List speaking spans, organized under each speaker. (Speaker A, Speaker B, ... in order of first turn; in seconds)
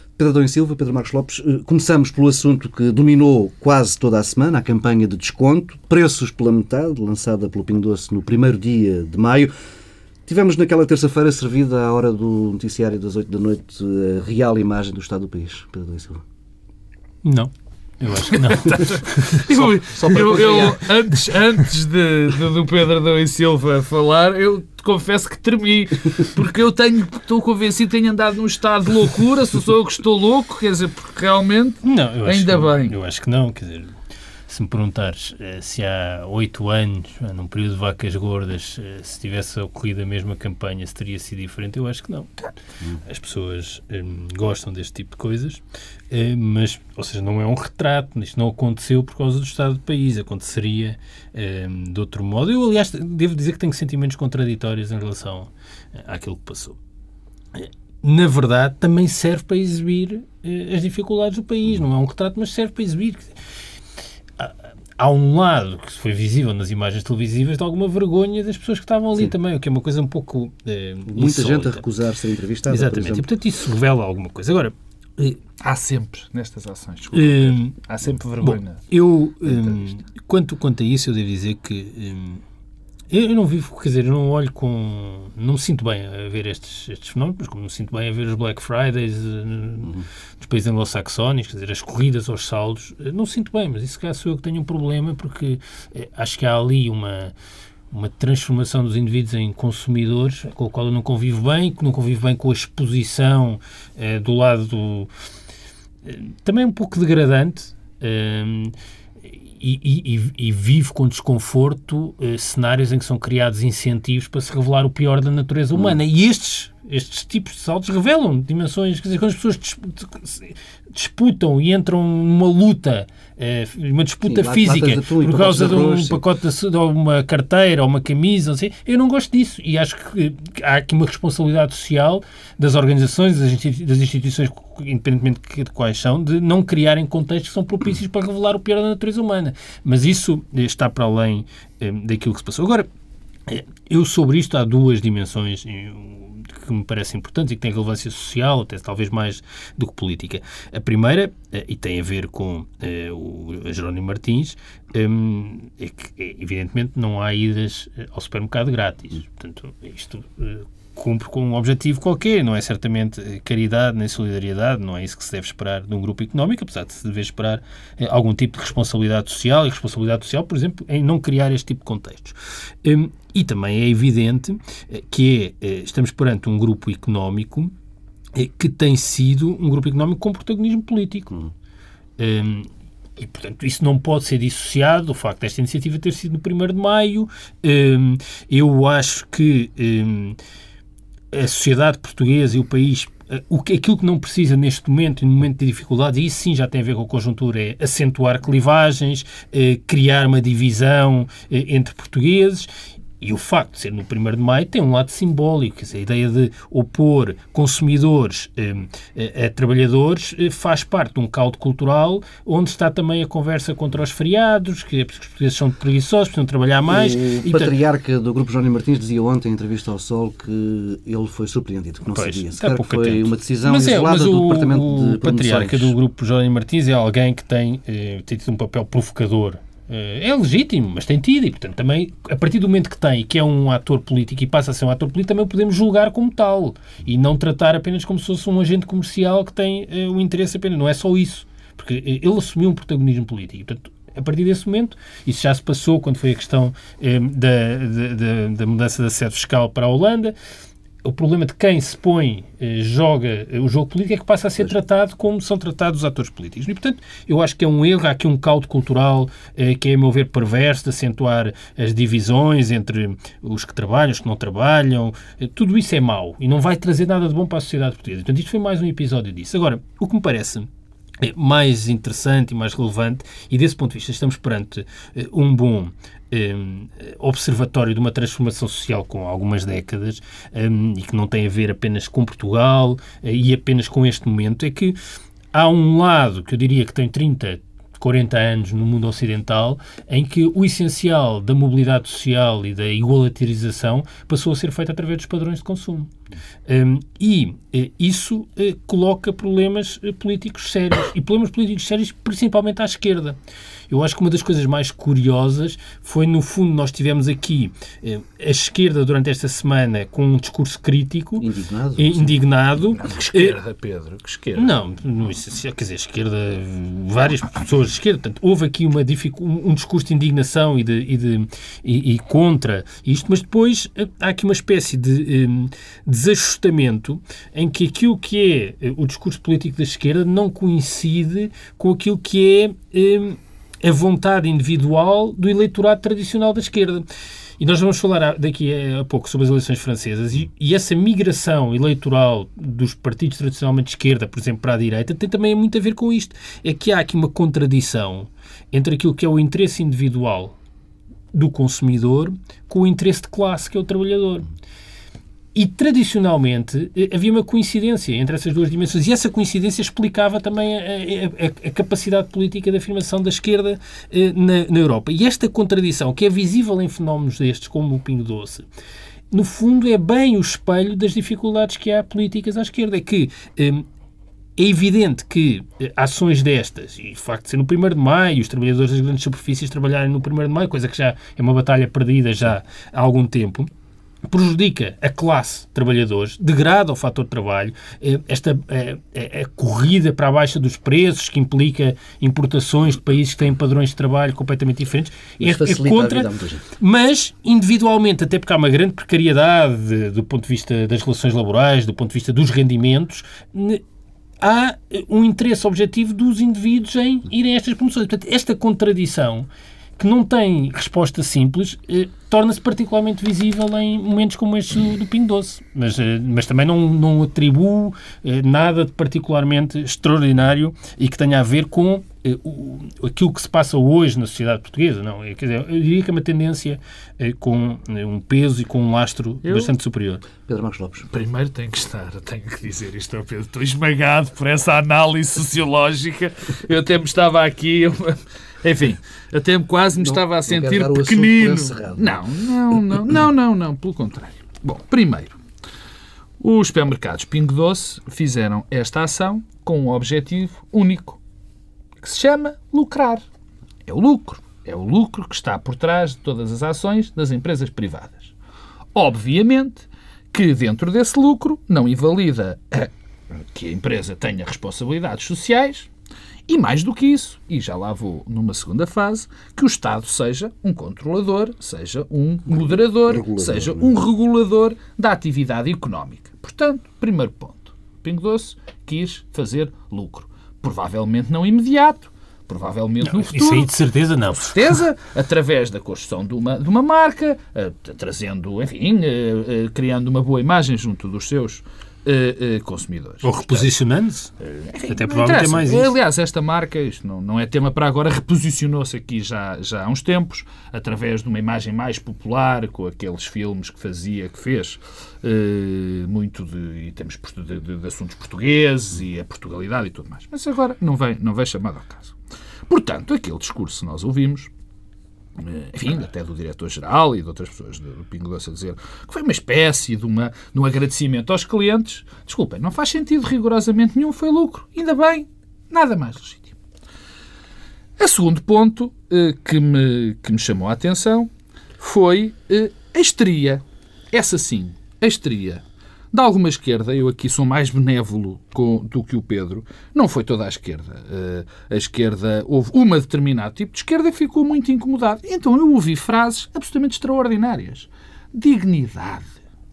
Speaker A: 0.2-9.5, 10.2-16.2, 19.5-20.8, 71.1-73.3, 124.2-126.2, 216.9-225.9, 311.4-312.3, 395.4-396.6, 430.4-431.1, 440.0-442.2, 472.5-473.9
Speaker B: 17.2-19.4, 31.8-34.0, 34.5-42.5, 43.0-56.8, 57.5-63.3, 64.4-71.8, 72.7-75.4, 77.1-77.8, 78.4-82.4, 83.1-97.3, 97.9-105.1, 106.0-142.9, 143.5-177.7, 178.3-181.4, 182.2-190.4, 191.3-202.7, 203.2-217.7, 222.1-250.3, 251.0-270.7, 271.2-284.9, 285.5-296.1, 296.7-303.4, 303.9-313.6, 314.6-337.0, 337.6-350.5, 351.3-354.5, 355.5-368.6, 369.3-373.9, 374.6-383.7, 384.3-403.8, 404.4-430.2, 483.0-484.8, 493.2-494.3, 494.9-495.9
Speaker C: 18.3-33.0, 75.6-78.8, 313.0-314.7, 429.4-429.7, 431.1-445.4, 446.4-451.2, 452.0-453.2, 453.9-458.3, 458.9-465.9, 466.5-483.7, 484.5-493.7, 494.4-512.1, 512.7-514.5, 515.4-526.5, 528.0-549.3